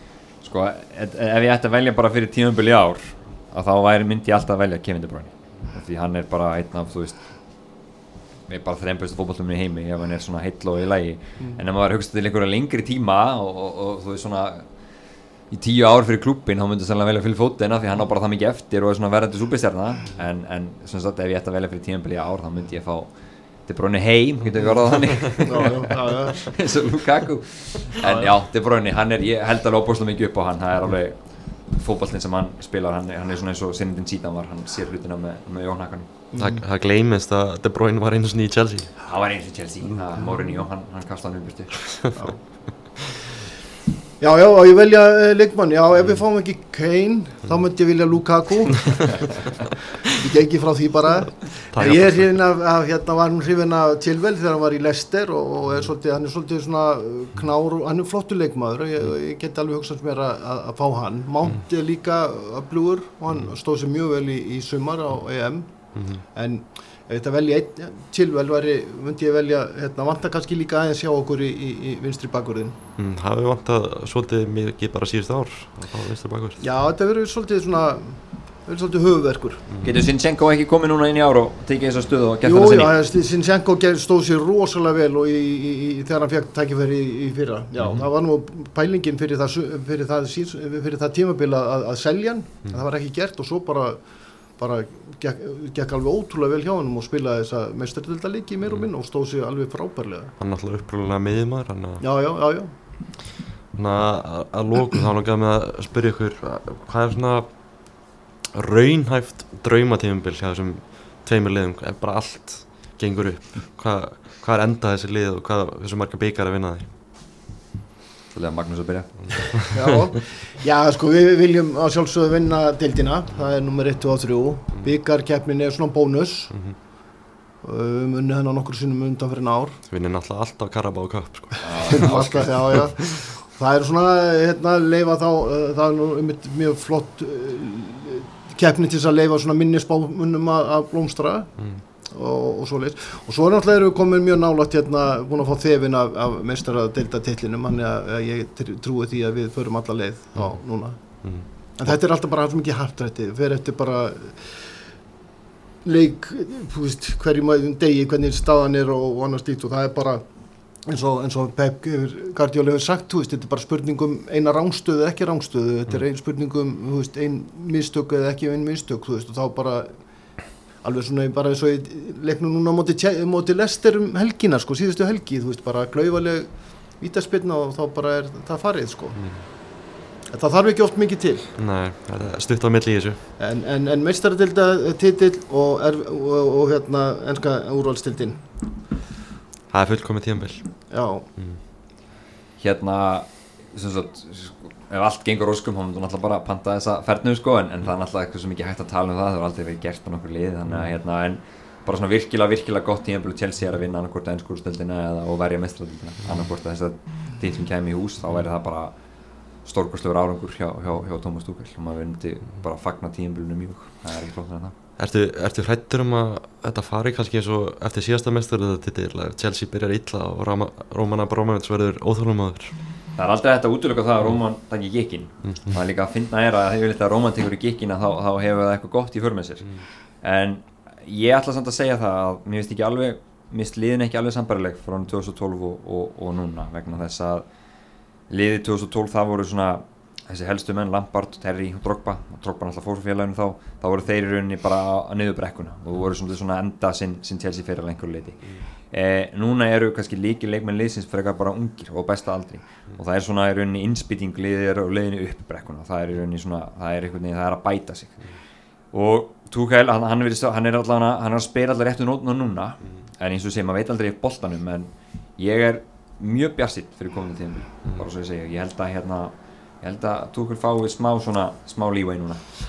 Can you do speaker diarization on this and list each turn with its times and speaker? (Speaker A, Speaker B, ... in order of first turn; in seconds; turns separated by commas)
Speaker A: 0.4-36.2, Speaker B: 11.4-11.6, Speaker B: 25.3-26.5, Speaker B: 28.0-28.3, Speaker B: 36.3-36.6, Speaker C: 36.4-39.2, Speaker A: 39.1-42.2, Speaker B: 42.1-43.0, Speaker B: 44.2-49.3, Speaker B: 50.1-72.8, Speaker C: 51.7-52.5, Speaker C: 65.9-66.2, Speaker C: 73.0-76.6, Speaker B: 76.6-79.6, Speaker C: 79.7-80.0, Speaker A: 79.8-83.0, Speaker B: 82.4-100.3, Speaker A: 87.8-88.0, Speaker C: 87.8-88.1, Speaker C: 100.4-102.0, Speaker B: 102.0-102.7, Speaker C: 103.7-116.9, Speaker A: 118.3-119.8, Speaker C: 119.3-119.8, Speaker B: 119.7-127.0, Speaker C: 126.5-126.8, Speaker B: 127.6-129.8, Speaker C: 129.9-133.1, Speaker A: 131.6-132.8, Speaker B: 131.9-154.8, Speaker C: 141.6-141.8, Speaker C: 150.3-152.0, Speaker B: 155.8-181.6, Speaker C: 179.1-179.5, Speaker C: 181.6-183.2, Speaker B: 183.4-188.7, Speaker C: 189.7-191.6, Speaker B: 190.9-191.3, Speaker A: 192.6-214.8, Speaker C: 200.7-200.9, Speaker C: 215.0-222.8, Speaker A: 223.2-272.5, Speaker C: 225.4-225.8